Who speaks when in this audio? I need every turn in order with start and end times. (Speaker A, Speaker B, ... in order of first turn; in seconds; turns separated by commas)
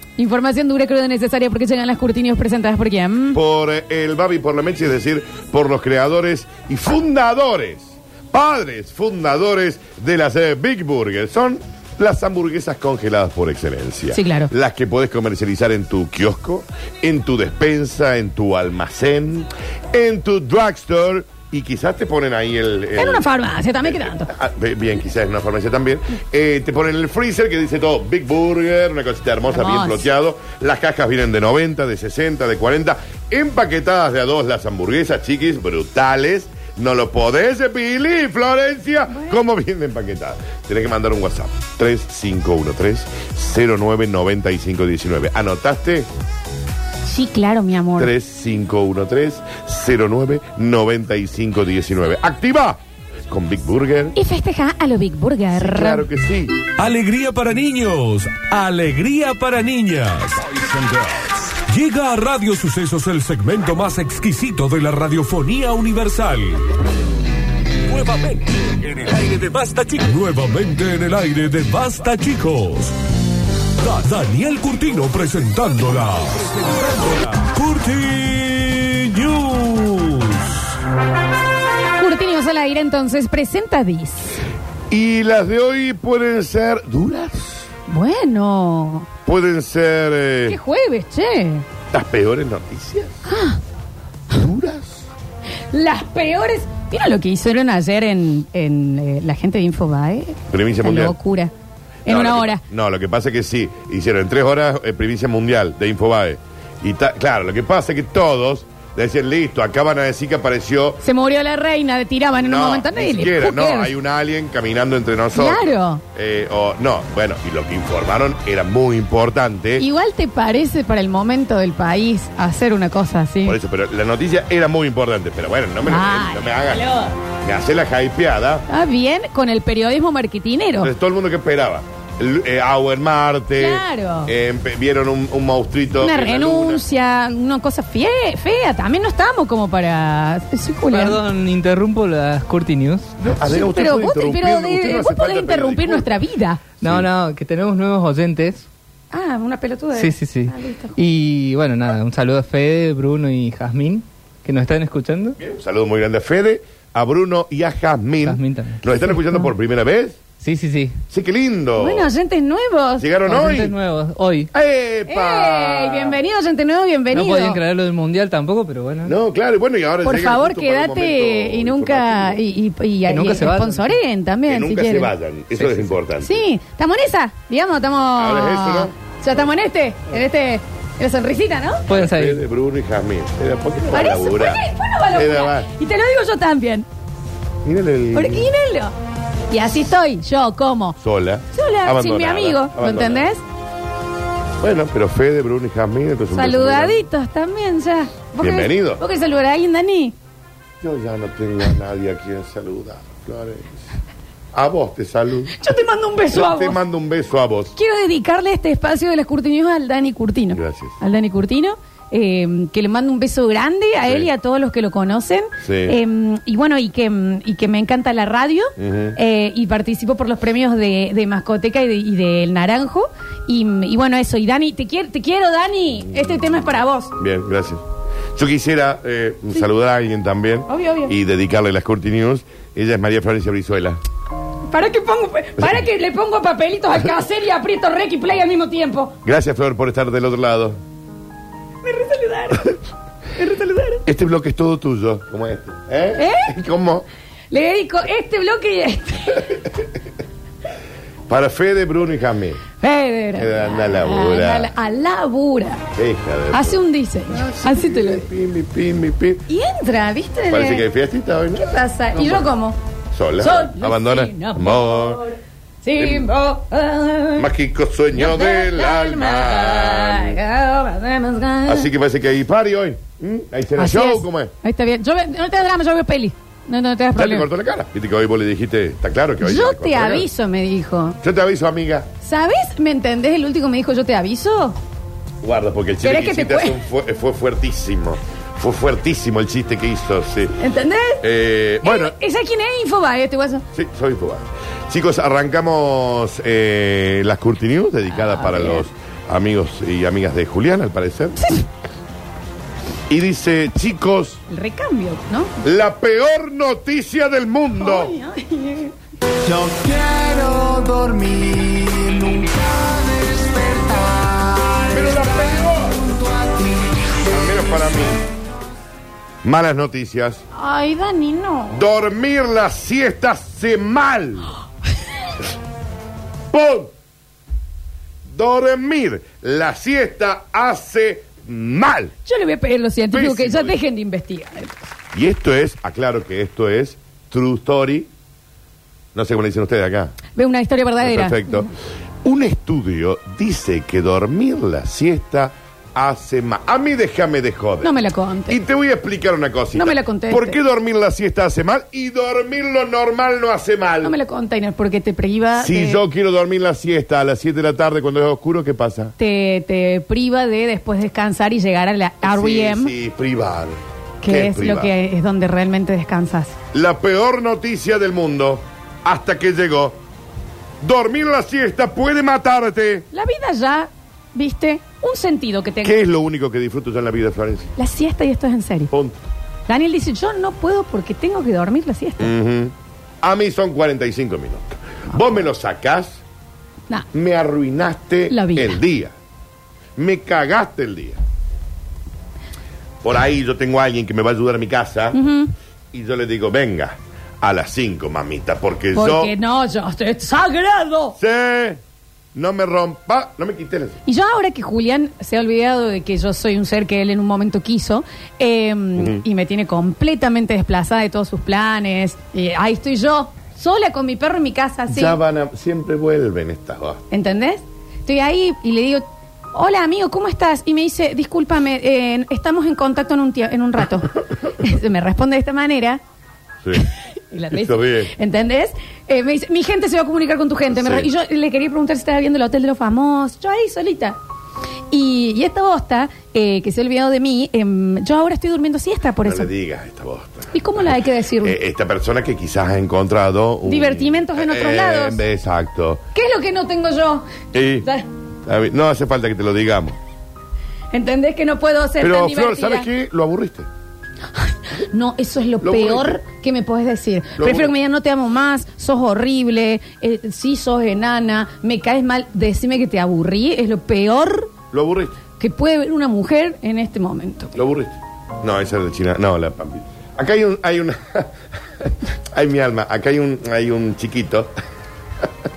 Speaker A: 0.2-3.4, Speaker B: 3.3-23.3, Speaker A: 14.1-14.5, Speaker A: 22.9-24.3, Speaker B: 23.8-46.1, Speaker A: 29.5-30.1, Speaker A: 39.1-39.4, Speaker A: 47.0-48.1, Speaker B: 48.0-54.1, Speaker A: 54.1-56.1, Speaker B: 55.5-56.6, Speaker C: 56.7-66.7, Speaker C: 67.9-73.0, Speaker C: 73.8-80.7, Speaker A: 82.0-84.3, Speaker B: 84.9-87.7, Speaker A: 87.9-89.1, Speaker B: 89.2-90.6, Speaker A: 90.5-91.7, Speaker B: 91.9-93.2, Speaker A: 93.2-93.6, Speaker B: 94.3-95.1, Speaker A: 95.7-101.5, Speaker B: 100.5-101.2, Speaker A: 102.0-102.6, Speaker B: 102.1-111.0, Speaker A: 111.0-113.9, Speaker B: 112.4-119.9, Speaker A: 115.3-116.0, Speaker A: 119.8-123.6, Speaker B: 123.4-128.7, Speaker A: 125.9-127.2, Speaker A: 128.7-130.9, Speaker B: 130.8-136.8, Speaker A: 133.6-134.3, Speaker A: 136.0-141.2, Speaker D: 140.9-143.1, Speaker B: 143.2-146.2, Speaker A: 143.4-146.6, Speaker B: 146.8-147.1, Speaker D: 146.8-148.7, Speaker A: 149.1-151.0, Speaker D: 149.9-155.4, Speaker B: 155.4-160.2, Speaker D: 158.2-159.3, Speaker D: 160.4-161.0, Speaker B: 161.1-162.1, Speaker A: 161.8-163.1, Speaker B: 163.0-163.7, Speaker D: 163.3-164.5, Speaker B: 164.5-166.2, Speaker A: 165.1-167.6, Speaker D: 167.1-169.1, Speaker B: 169.0-172.4, Speaker A: 170.0-175.1, Speaker D: 173.1-173.9, Speaker B: 174.5-176.4, Speaker D: 175.6-175.9, Speaker A: 176.2-181.9, Speaker B: 178.2-178.9, Speaker B: 181.9-185.7, Speaker D: 181.9-182.4, Speaker A: 183.9-186.9, Speaker B: 187.6-188.5, Speaker A: 188.1-188.9, Speaker A: 189.5-191.0, Speaker B: 191.0-193.3, Speaker A: 191.5-193.4, Speaker B: 194.6-197.0, Speaker A: 196.3-200.1, Speaker B: 198.4-199.0, Speaker B: 200.8-203.8, Speaker B: 204.5-205.6, Speaker A: 205.6-206.8, Speaker B: 206.3-207.7, Speaker A: 207.8-227.1, Speaker B: 210.5-210.9, Speaker B: 215.6-216.0, Speaker B: 218.8-219.2, Speaker B: 227.2-227.8, Speaker B: 228.3-234.0, Speaker A: 230.7-231.1, Speaker A: 234.7-239.2, Speaker B: 239.2-240.8, Speaker A: 241.8-242.8, Speaker A: 243.3-244.0, Speaker B: 244.0-247.1, Speaker A: 246.2-246.6, Speaker A: 247.5-249.6, Speaker B: 251.3-252.6, Speaker A: 252.8-255.8, Speaker B: 253.3-254.7, Speaker B: 255.9-259.4, Speaker A: 256.5-258.3, Speaker A: 259.5-260.8, Speaker B: 260.5-262.5, Speaker A: 261.6-262.8, Speaker B: 263.1-265.2, Speaker A: 263.4-267.5, Speaker B: 266.0-266.3, Speaker B: 267.4-270.4, Speaker A: 268.1-271.9, Speaker B: 271.6-274.5, Speaker A: 273.8-277.5, Speaker B: 277.1-280.3, Speaker A: 279.4-281.2, Speaker B: 281.2-282.1, Speaker A: 282.2-284.8, Speaker B: 285.4-290.6, Speaker A: 286.0-286.8, Speaker A: 290.6-291.2, Speaker B: 291.2-292.1, Speaker A: 291.8-293.6, Speaker B: 293.7-301.4, Speaker A: 298.2-298.8, Speaker A: 301.4-301.6, Speaker B: 303.1-304.4, Speaker A: 304.5-305.6, Speaker B: 305.6-308.1, Speaker A: 307.7-308.9, Speaker E: 309.4-314.1, Speaker B: 314.9-316.1, Speaker B: 317.2-318.2, Speaker B: 319.4-320.4, Speaker A: 320.5-321.8, Speaker B: 321.7-324.5, Speaker B: 326.5-326.9, Speaker B: 328.3-332.1, Speaker A: 332.2-334.9, Speaker B: 333.1-333.8, Speaker B: 335.1-338.1, Speaker B: 339.1-340.2, Speaker A: 340.3-341.7, Speaker B: 341.0-341.7, Speaker B: 342.2-347.9, Speaker A: 347.8-348.6, Speaker B: 348.5-354.1, Speaker A: 349.7-350.6, Speaker A: 354.0-356.0, Speaker B: 355.6-359.1, Speaker A: 359.2-362.9, Speaker B: 362.2-364.9, Speaker A: 364.2-366.6, Speaker B: 366.7-370.0, Speaker B: 370.8-373.1, Speaker A: 373.1-376.0, Speaker B: 375.8-377.7, Speaker A: 377.8-378.9, Speaker B: 378.9-379.2, Speaker A: 379.7-382.3, Speaker B: 382.2-386.2, Speaker B: 387.1-389.1, Speaker A: 388.3-388.8, Speaker B: 389.9-391.2, Speaker B: 393.0-395.2, Speaker A: 395.1-395.5, Speaker B: 395.9-399.3, Speaker A: 398.9-401.2, Speaker B: 401.1-401.8, Speaker B: 402.3-404.0, Speaker A: 404.1-415.2, Speaker B: 409.0-409.2, Speaker B: 414.9-417.0, Speaker A: 417.1-426.0, Speaker A: 426.8-434.2, Speaker B: 427.5-428.1, Speaker B: 430.7-431.1, Speaker A: 434.9-439.5, Speaker B: 439.2-446.0, Speaker A: 440.5-441.6, Speaker A: 443.7-445.2, Speaker A: 446.1-448.1, Speaker B: 447.5-447.9, Speaker B: 448.4-450.0, Speaker A: 450.9-452.9, Speaker B: 452.0-453.7, Speaker A: 454.3-464.5, Speaker B: 455.6-456.2, Speaker B: 457.4-457.7, Speaker B: 464.7-465.2, Speaker A: 465.4-467.6, Speaker B: 467.6-474.5